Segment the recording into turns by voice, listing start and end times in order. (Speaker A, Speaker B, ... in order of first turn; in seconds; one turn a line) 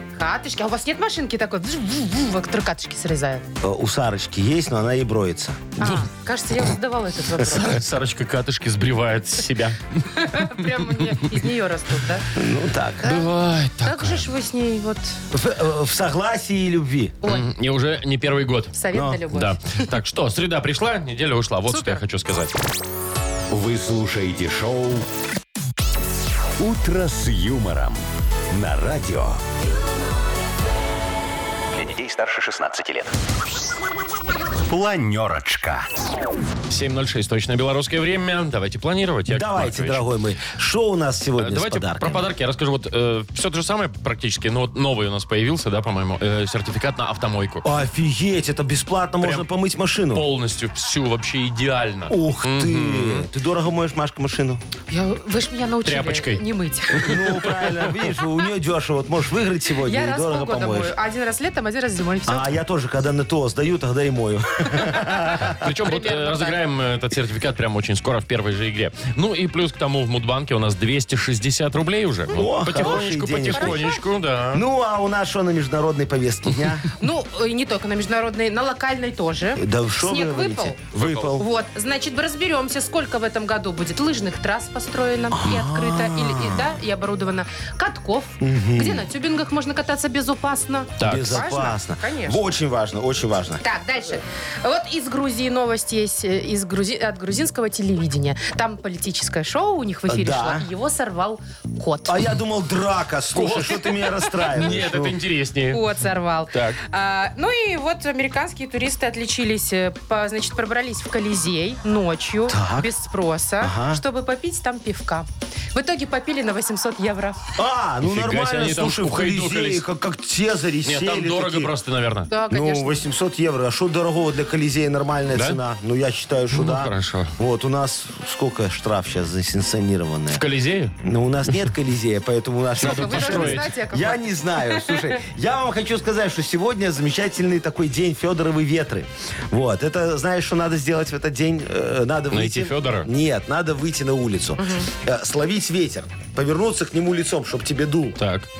Speaker A: 0.2-3.5
Speaker B: 3.6-5.8
Speaker A: 5.8-7.8
Speaker C: 7.5-9.8
Speaker A: 10.1-12.2
Speaker B: 12.3-13.2
Speaker A: 13.0-13.3
Speaker C: 13.0-14.3
Speaker A: 13.8-15.2
Speaker B: 15.3-17.2
Speaker C: 17.2-18.7
Speaker A: 18.7-19.9
Speaker B: 18.9-19.2
Speaker C: 19.3-22.5
Speaker A: 21.7-22.0
Speaker D: 23.5-25.1
Speaker D: 26.6-29.4
Speaker D: 31.7-33.1
Speaker D: 34.7-35.9
Speaker C: 36.7-40.0
Speaker B: 39.3-42.3
Speaker C: 41.4-47.6
Speaker B: 47.6-50.2
Speaker C: 49.2-49.5
Speaker C: 50.1-53.3
Speaker B: 52.1-54.6
Speaker A: 54.9-57.2
Speaker C: 55.8-57.3
Speaker B: 57.0-60.9
Speaker A: 59.8-62.5
Speaker B: 62.2-65.7
Speaker C: 65.5-74.6
Speaker A: 65.6-66.6
Speaker A: 72.3-74.0
Speaker B: 72.3-73.8
Speaker B: 74.5-76.8
Speaker A: 77.0-80.8
Speaker B: 79.6-81.4
Speaker C: 80.9-81.3
Speaker A: 81.3-92.4
Speaker B: 85.3-86.7
Speaker B: 88.4-89.1
Speaker C: 91.0-91.4
Speaker B: 91.0-93.6
Speaker A: 93.6-102.2
Speaker B: 100.1-100.7
Speaker B: 102.1-105.2
Speaker C: 103.3-105.8
Speaker A: 105.7-117.5
Speaker C: 106.5-106.8
Speaker B: 112.5-112.9
Speaker B: 113.6-114.0
Speaker B: 117.6-121.7
Speaker C: 118.0-119.8
Speaker C: 120.8-122.3
Speaker A: 122.3-123.0
Speaker B: 122.5-130.4
Speaker C: 125.3-125.6
Speaker C: 126.5-127.3
Speaker C: 130.3-130.9
Speaker B: 131.0-148.2
Speaker A: 132.8-135.2
Speaker C: 132.8-133.7
Speaker C: 142.3-143.1
Speaker A: 144.6-144.9
Speaker C: 148.2-148.5